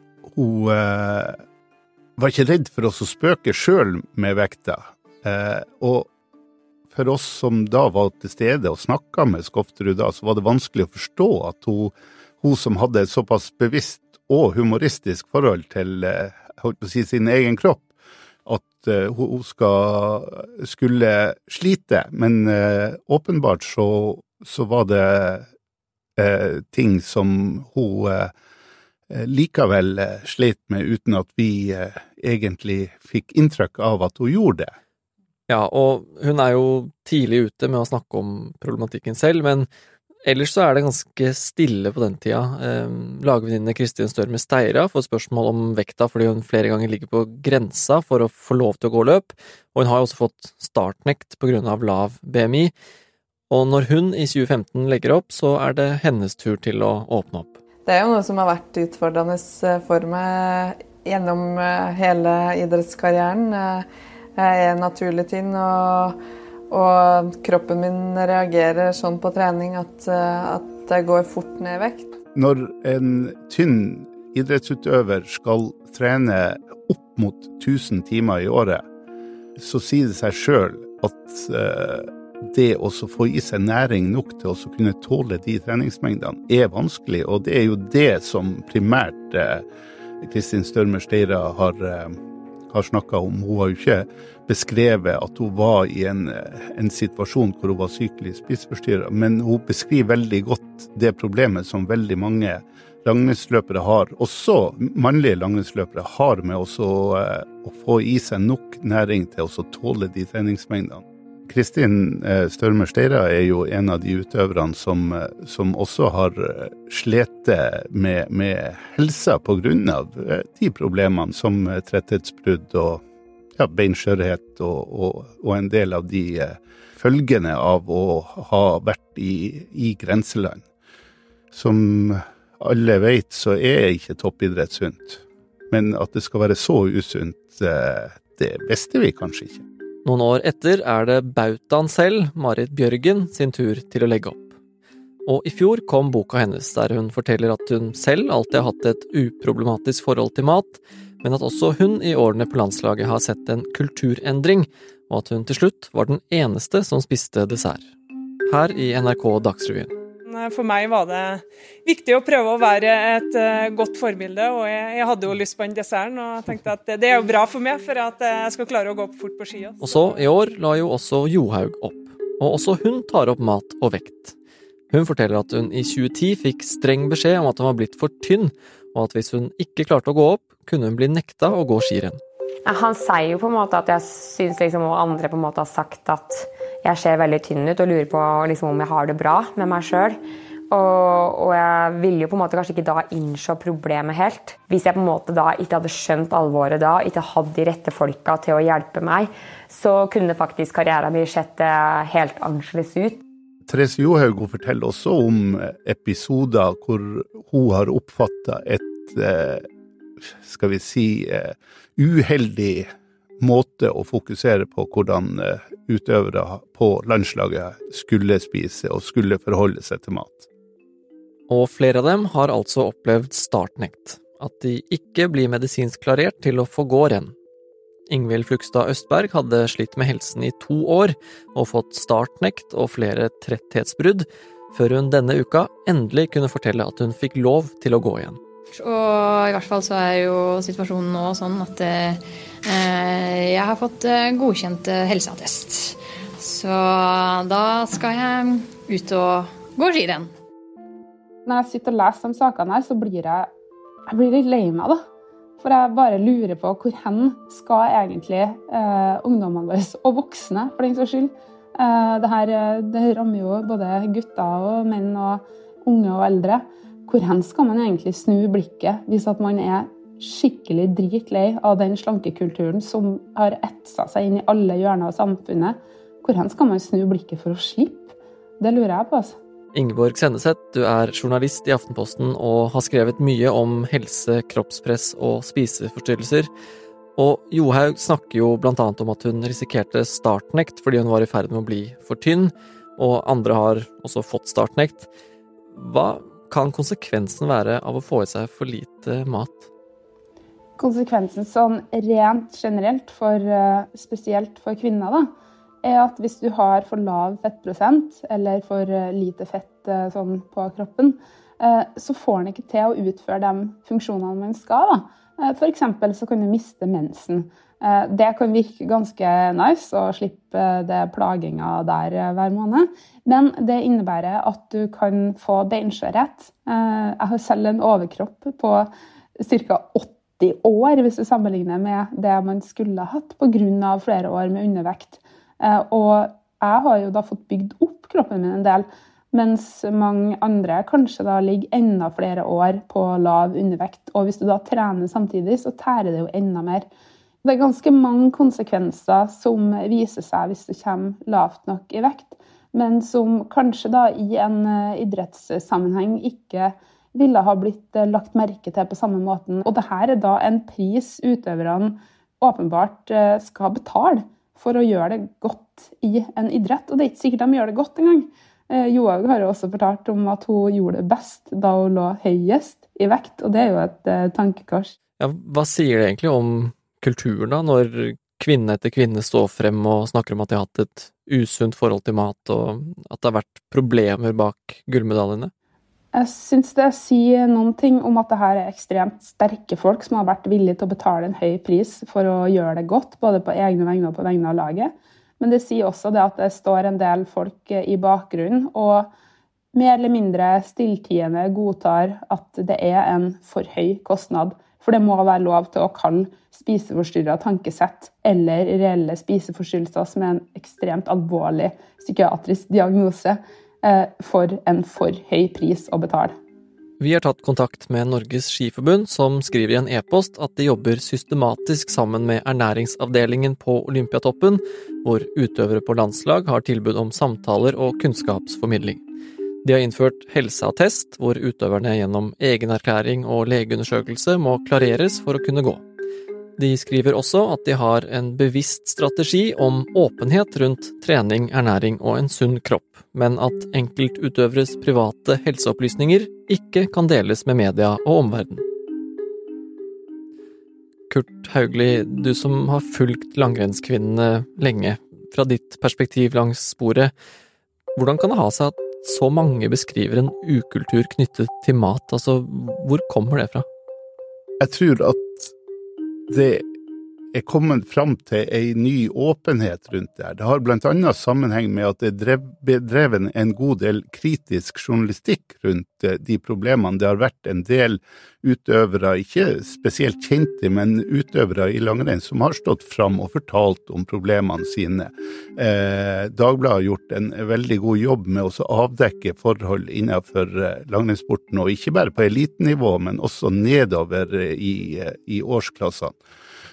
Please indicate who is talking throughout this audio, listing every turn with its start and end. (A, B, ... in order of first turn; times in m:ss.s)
0:00.3-0:01.4 A
0:02.2-0:06.1 A
0:06.9-0:17.9 A
0:18.4-0:25.5 A
0:26.2-0:28.3 A
0:29.1-0:34.7 A
0:35.5-0:39.7 B
0:40.2-0:52.7 B
0:53.5-0:57.6 B
0:57.8-1:03.8 C
1:04.4-1:06.2 C
1:06.7-1:12.1 C
1:12.3-1:18.8 A
1:19.6-1:29.6 A
1:30.2-1:32.2 A
1:32.7-2:03.0 A
2:03.6-2:10.6 A
2:11.5-2:19.6 A
2:20.0-2:24.5 B
2:25.2-2:37.9 B
2:38.5-2:39.9 B
2:40.3-2:50.1 D
2:49.8-2:54.4 B
2:54.9-3:02.2 B
3:02.6-3:23.2 E
3:23.7-3:29.6 A
3:30.4-3:40.5 A
3:41.5-3:47.3 B
3:48.1-3:58.4 B
3:58.7-4:10.3 F
4:11.4-4:13.5 G
4:14.1-4:15.0 G
4:15.6-4:39.4 G
4:39.7-4:46.5 B
4:47.2-4:55.1 B
4:55.7-4:59.7 B
5:00.8-5:05.3 G
5:05.8-5:28.9 G
5:29.4-5:46.8 G
5:47.4-6:14.9 G
6:15.2-6:25.5 B
6:26.1-6:39.1 G
6:39.7-6:56.3 G
6:57.0-7:09.0 B
7:09.6-7:15.8 B
7:16.6-7:28.6 B
7:31.1-7:37.1 B
7:38.0-7:43.6 B
7:44.6-7:45.5 A
7:46.3-7:46.6 A
7:47.3-8:16.2 A